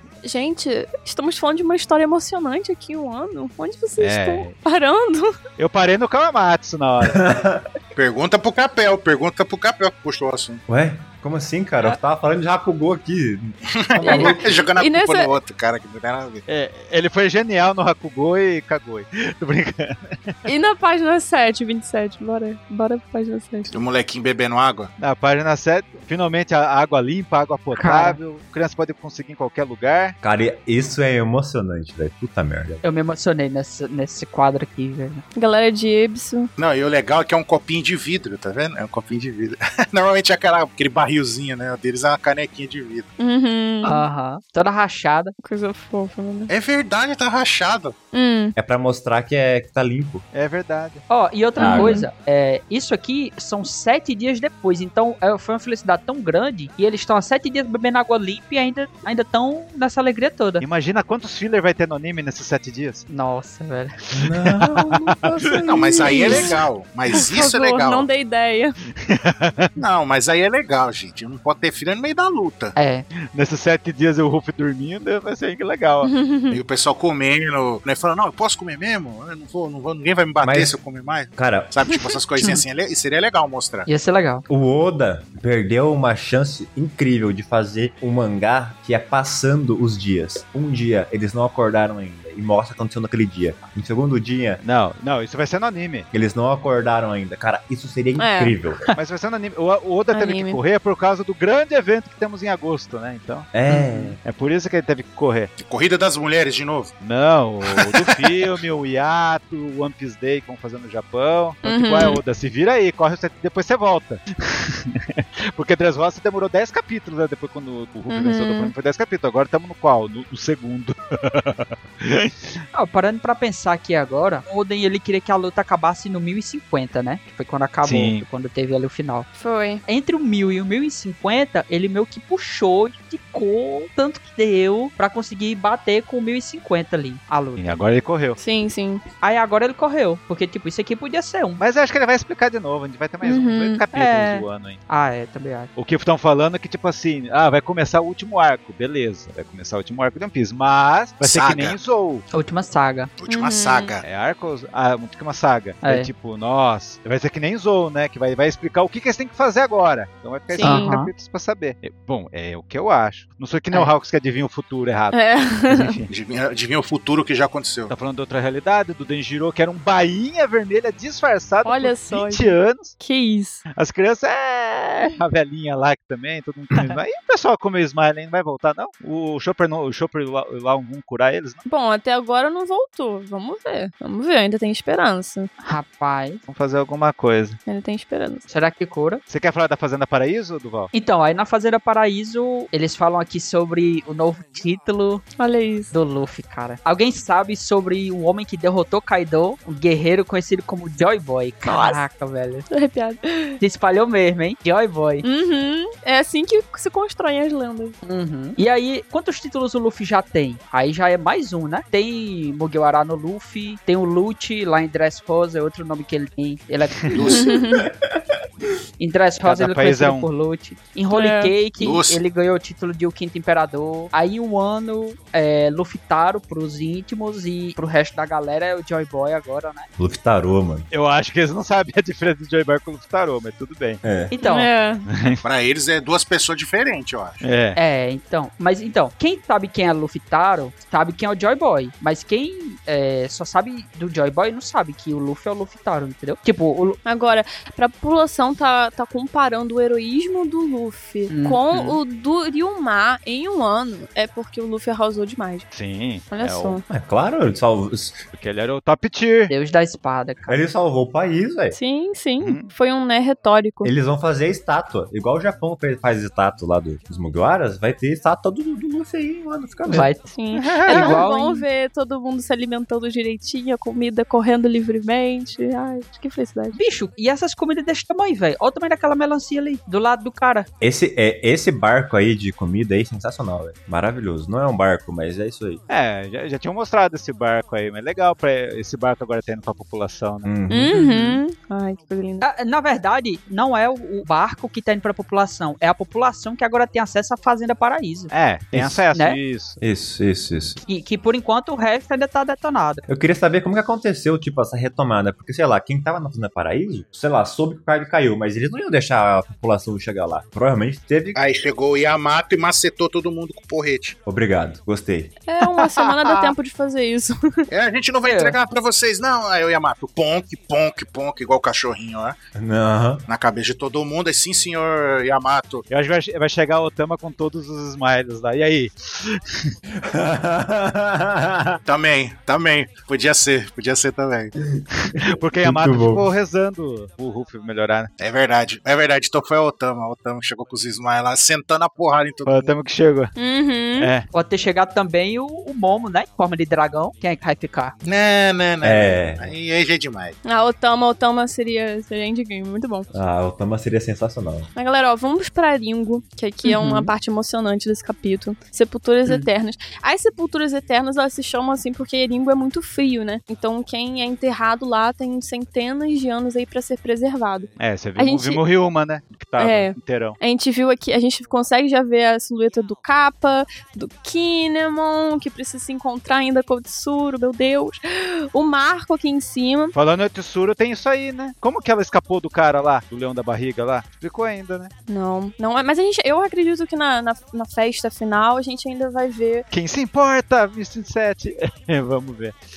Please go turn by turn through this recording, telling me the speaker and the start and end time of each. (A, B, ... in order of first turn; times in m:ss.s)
0:00.2-0:05.3 A
0:04.0-0:04.6 B
0:05.6-0:07.2 B
0:07.0-0:07.6 C
0:07.9-0:10.6 D
0:10.7-0:14.3 C
0:13.9-0:16.4 D
0:14.0-0:15.3 A
0:16.5-0:20.4 B
0:20.5-0:23.7 A
0:23.7-0:24.9 D
0:25.0-0:30.2 B
0:27.7-0:28.2 E
0:30.2-0:32.8 C
0:32.8-0:35.2 E
0:35.4-0:36.5 A
0:36.6-0:43.1 D
0:43.2-0:44.0 A
0:43.8-0:45.4 E
0:45.4-0:46.5 A
0:46.5-0:48.0 D
0:48.1-0:48.5 A
0:48.6-0:50.2 C
0:50.3-0:51.0 B
0:51.1-1:00.6 E
0:51.6-0:52.0 C
0:51.6-0:52.1 A
1:00.6-1:03.1 B
1:03.1-1:04.0 E
1:04.1-1:06.5 C
1:05.6-1:08.1 D
1:06.0-1:06.6 A
1:07.1-1:08.8 A
1:09.0-1:09.7 B
1:09.8-1:12.8 D
1:12.8-1:13.1 E
1:13.3-1:16.1 B
1:16.0-1:16.6 A
1:16.5-1:23.9 D
1:20.4-1:20.7 C
1:21.4-1:21.8 C
1:23.9-1:24.4 E
1:24.5-1:34.6 C
1:34.6-1:36.1 B
1:36.1-1:38.8 C
1:38.2-1:38.6 A
1:39.0-1:43.5 B
1:40.1-1:40.6 A
1:43.5-1:44.2 C
1:43.7-1:44.1 E
1:44.2-1:45.5 B
1:45.6-1:46.9 D
1:47.0-2:02.5 B
1:51.6-1:52.2 A
1:58.1-1:58.7 A
2:02.7-2:09.3 E
2:07.8-2:08.2 B
2:09.4-2:09.8 A
2:09.9-2:17.7 E
2:17.6-2:18.4 B
2:18.4-2:19.0 A
2:19.2-2:21.6 E
2:21.6-2:24.8 B
2:23.2-2:23.8 A
2:23.9-2:25.7 E
2:25.8-2:32.2 B
2:31.2-2:31.8 D
2:32.3-2:33.1 E
2:33.2-2:34.0 D
2:33.3-2:34.0 A
2:34.0-2:46.1 B
2:35.8-2:36.1 E
2:40.5-2:40.9 A
2:40.6-2:41.1 E
2:45.1-2:46.0 A
2:46.1-2:47.9 D
2:47.9-2:53.0 B
2:51.6-2:53.6 A
2:53.8-3:01.6 B
3:01.7-3:05.5 A
3:05.6-3:06.4 E
3:06.5-3:07.6 B
3:07.7-3:08.5 A
3:08.5-3:09.2 E
3:09.3-3:10.9 B
3:10.9-3:15.3 E
3:15.4-3:15.9 A
3:15.9-3:22.7 E
3:21.6-3:22.0 A
3:22.7-3:23.6 A
3:23.6-3:25.3 E
3:25.2-3:28.0 A
3:28.0-3:37.4 E
3:37.1-3:37.6 D
3:37.3-3:37.9 A
3:37.4-3:38.4 C
3:39.0-3:49.9 E
3:39.4-3:40.3 B
3:41.1-3:41.6 A
3:41.8-3:42.2 D
3:50.0-3:50.9 C
3:50.9-3:54.0 B
3:54.0-3:54.3 C
3:54.3-3:54.7 E
3:54.4-3:55.1 A
3:55.1-3:55.4 B
3:55.4-3:57.4 D
3:57.4-3:57.8 B
3:57.8-4:07.0 E
4:07.0-4:15.7 A
4:11.3-4:12.0 E
4:15.7-4:16.8 B
4:16.3-4:16.8 A
4:16.9-4:18.2 C
4:18.3-4:19.5 B
4:19.5-4:20.6 E
4:20.5-4:21.8 C
4:21.7-4:23.9 A
4:22.4-4:22.7 B
4:23.8-4:30.1 C
4:29.9-4:30.3 E
4:30.2-4:36.8 A
4:30.6-4:31.2 B
4:30.8-4:31.7 E
4:36.7-4:40.7 E
4:40.8-4:45.8 C
4:45.9-4:50.5 B
4:50.4-4:51.0 C
4:50.7-4:52.4 A
4:50.9-4:51.4 E
4:52.4-4:58.3 E
4:58.3-4:59.8 B
4:58.7-4:59.0 C
4:59.1-4:59.4 E
4:59.8-5:00.8 C
5:00.9-5:03.0 E
5:03.1-5:11.4 C
5:11.4-5:14.2 D
5:14.3-5:15.3 C
5:15.5-5:17.7 A
5:17.7-5:22.4 D
5:18.2-5:18.6 E
5:22.6-5:23.3 C
5:23.3-5:25.8 D
5:25.9-5:29.7 B
5:30.0-5:31.8 C
5:31.8-5:34.5 D
5:34.8-5:36.3 C
5:35.0-5:38.1 B
5:38.2-5:42.8 D
5:42.5-5:43.3 B
5:43.4-5:44.1 A
5:44.0-5:44.3 B
5:44.3-5:48.0 E
5:48.0-5:50.4 D
5:48.8-5:49.5 C
5:50.4-5:53.1 A
5:53.1-5:54.7 C
5:54.8-6:08.6 A
5:56.6-5:57.1 E
6:07.8-6:10.4 B
6:09.6-6:20.0 A
6:20.0-6:24.9 B
6:25.1-6:29.6 A
6:29.7-6:32.6 B